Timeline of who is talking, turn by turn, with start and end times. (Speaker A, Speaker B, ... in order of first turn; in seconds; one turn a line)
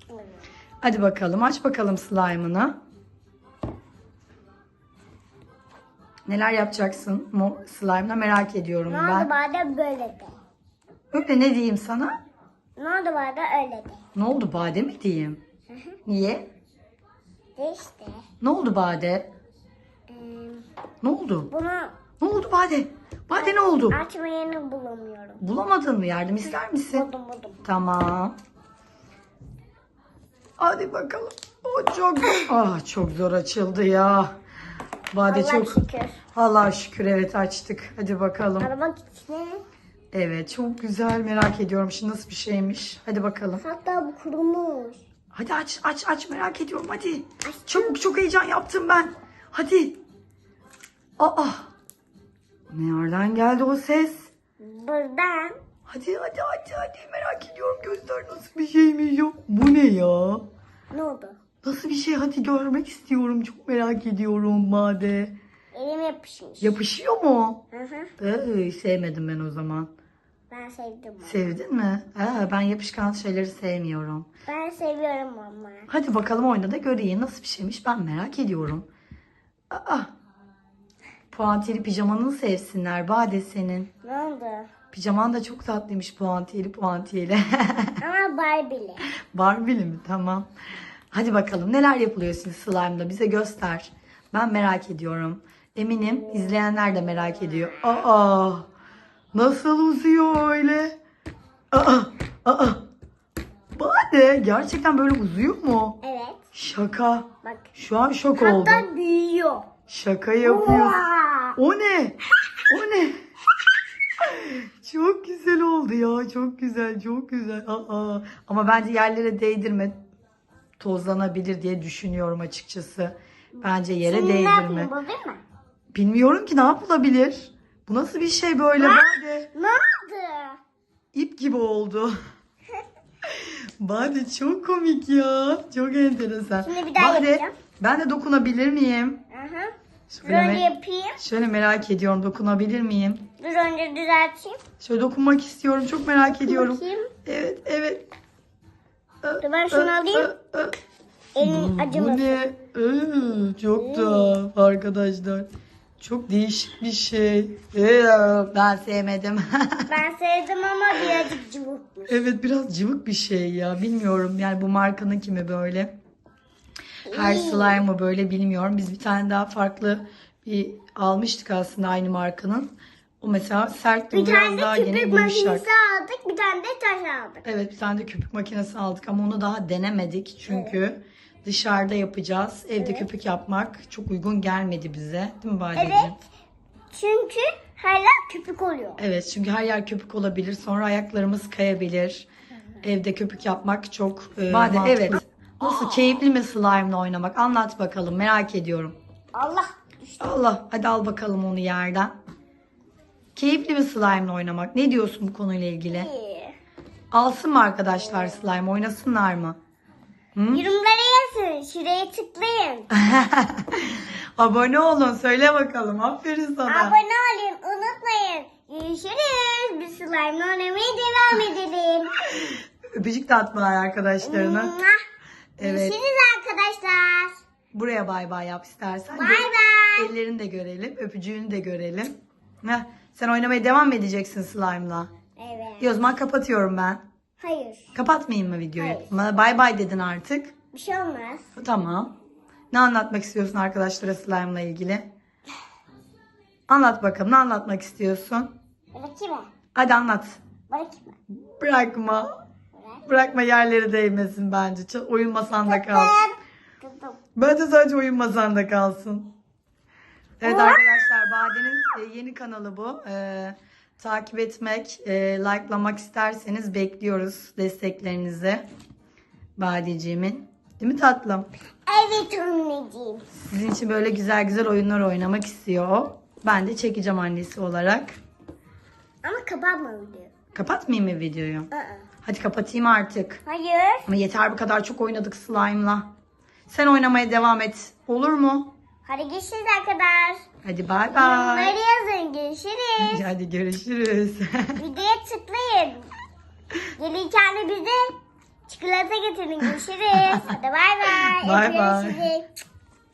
Speaker A: 0.1-0.4
Speaker B: 0.8-2.7
Speaker B: 6.3-9.3
Speaker A: 8.9-10.3
Speaker B: 11.1-12.1
Speaker A: 12.8-14.0
Speaker B: 14.2-15.4
Speaker A: 15.7-16.0
Speaker B: 16.1-16.5
Speaker A: 17.6-18.2
Speaker B: 18.4-19.3
Speaker A: 20.1-20.7
Speaker B: 21.0-21.5
Speaker A: 21.5-22.0
Speaker B: 22.2-24.0
Speaker A: 23.3-25.4
Speaker B: 25.4-27.1
Speaker A: 26.9-27.6
Speaker B: 27.6-28.4
Speaker B: 30.6-34.3
Speaker B: 35.1-35.8
Speaker A: 35.3-36.2
Speaker B: 36.3-38.7
Speaker A: 38.6-39.6
Speaker B: 40.1-43.6
Speaker A: 43.6-45.0
Speaker B: 45.3-50.0
Speaker A: 47.4-48.0
Speaker B: 51.2-51.7
Speaker B: 52.7-54.3
Speaker A: 54.6-55.5
Speaker B: 55.9-60.4
Speaker A: 60.9-61.4
Speaker B: 61.6-65.3
Speaker A: 65.7-66.8
Speaker B: 66.6-67.6
Speaker A: 67.7-68.1
Speaker B: 68.2-69.9
Speaker A: 70.5-71.5
Speaker B: 71.2-74.3
Speaker A: 74.5-75.9
Speaker B: 75.9-78.9
Speaker B: 79.7-80.1
Speaker B: 81.3-83.9
Speaker A: 84.0-84.7
Speaker B: 84.9-88.0
Speaker A: 88.0-89.0
Speaker B: 89.3-90.5
Speaker B: 91.1-98.7
Speaker A: 96.0-97.9
Speaker B: 99.3-100.9
Speaker B: 101.7-102.8
Speaker B: 103.8-106.0
Speaker A: 106.0-106.4
Speaker B: 106.5-108.9
Speaker A: 107.4-107.7
Speaker A: 108.4-109.7
Speaker B: 109.9-111.0
Speaker A: 110.4-111.6
Speaker B: 111.5-113.2
Speaker B: 114.2-119.9
Speaker B: 120.8-124.9
Speaker A: 123.6-125.4
Speaker B: 125.9-129.5
Speaker A: 128.8-130.6
Speaker B: 131.1-132.1
Speaker B: 133.2-139.2
Speaker A: 136.6-137.5
Speaker A: 139.3-139.7
Speaker B: 140.1-143.2
Speaker A: 140.2-141.2
Speaker A: 143.4-144.6
Speaker B: 144.8-148.1
Speaker A: 146.2-147.1
Speaker B: 149.2-150.7
Speaker A: 149.4-150.3
Speaker A: 151.3-152.4
Speaker B: 151.4-155.5
Speaker A: 153.8-154.4
Speaker B: 156.0-159.9
Speaker A: 159.9-162.3
Speaker B: 162.1-165.9
Speaker A: 167.1-167.8
Speaker B: 167.1-175.6
Speaker A: 174.1-177.4
Speaker B: 177.4-186.2
Speaker A: 180.5-180.8
Speaker A: 182.8-183.1
Speaker A: 185.7-186.2
Speaker A: 186.9-189.0
Speaker B: 189.0-192.3
Speaker B: 192.8-198.9
Speaker A: 195.1-196.2
Speaker A: 199.3-200.3
Speaker B: 200.2-202.1
Speaker B: 203.3-206.1
Speaker A: 205.9-206.5
Speaker B: 207.1-209.6
Speaker A: 208.1-208.4
Speaker B: 210.3-210.6
Speaker A: 210.5-212.9
Speaker B: 212.9-216.9
Speaker A: 216.7-222.1
Speaker B: 222.3-224.8
Speaker A: 224.2-224.9
Speaker B: 225.6-225.9
Speaker A: 225.6-227.3
Speaker B: 227.7-232.1
Speaker A: 229.1-230.1
Speaker B: 232.6-235.1
Speaker A: 235.4-236.0
Speaker B: 235.8-237.0
Speaker A: 237.4-237.9
Speaker B: 237.9-240.5
Speaker A: 238.8-239.2
Speaker A: 240.7-241.5
Speaker B: 241.6-242.1
Speaker B: 242.7-245.1
Speaker B: 246.7-248.5
Speaker A: 248.9-249.5
Speaker B: 249.7-250.4
Speaker A: 250.7-251.2
Speaker B: 251.3-252.2
Speaker A: 252.7-253.3
Speaker B: 253.1-256.2
Speaker A: 255.7-257.2
Speaker B: 257.4-259.3
Speaker B: 260.4-268.6
Speaker A: 260.4-260.8
Speaker B: 269.6-271.5
Speaker A: 271.9-273.2
Speaker B: 273.4-278.2
Speaker A: 279.2-280.3
Speaker B: 280.6-281.7
Speaker A: 281.7-282.1
Speaker B: 282.2-283.4
Speaker A: 283.5-284.1
Speaker B: 284.1-286.1
Speaker B: 286.7-288.7
Speaker A: 289.1-290.4
Speaker B: 290.6-291.8
Speaker A: 291.1-293.2
Speaker B: 293.0-294.8
Speaker A: 294.8-296.1
Speaker A: 297.0-298.1
Speaker A: 298.7-302.5
Speaker B: 301.1-302.2